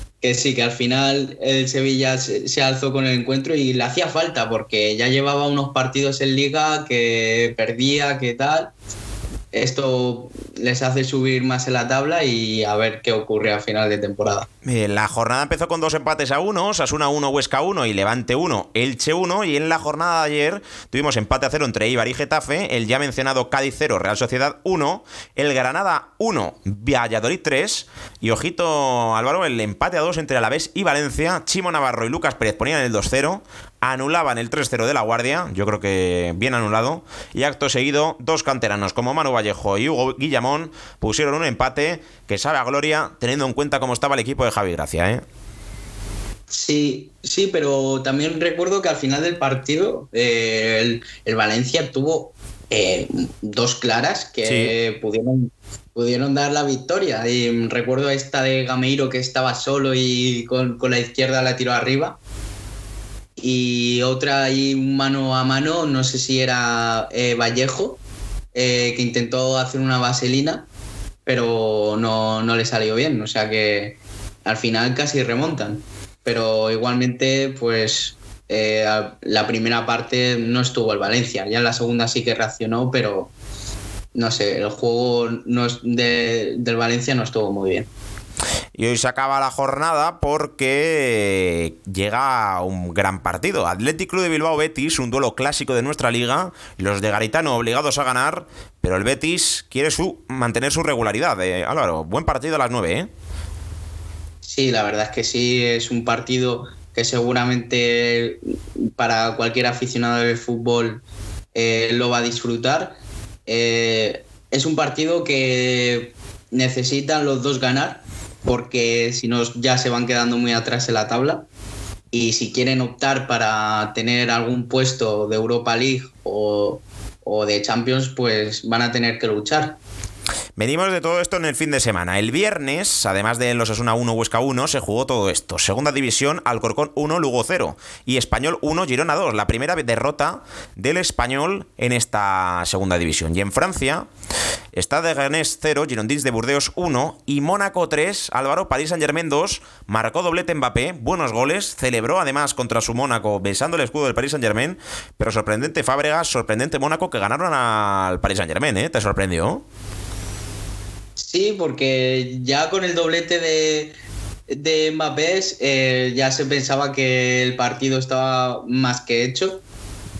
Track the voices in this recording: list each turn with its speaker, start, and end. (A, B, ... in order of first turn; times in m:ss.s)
0:00.2-0:08.7 A
0:09.5-0:14.5 A
0:14.6-0:45.2 B
0:46.5-1:02.2 A
0:54.4-0:54.7 B
1:03.4-1:08.0 A
1:08.5-1:10.6 A
1:11.2-1:23.3 A
1:24.1-1:27.9 A
1:28.7-1:43.1 B
1:44.4-1:48.4 A
1:49.0-1:51.0 A
1:51.5-2:01.5 A
2:02.1-2:09.8 A
2:10.6-2:24.1 B
2:24.7-2:39.6 B
2:41.2-2:43.9 A
2:44.5-2:49.6 A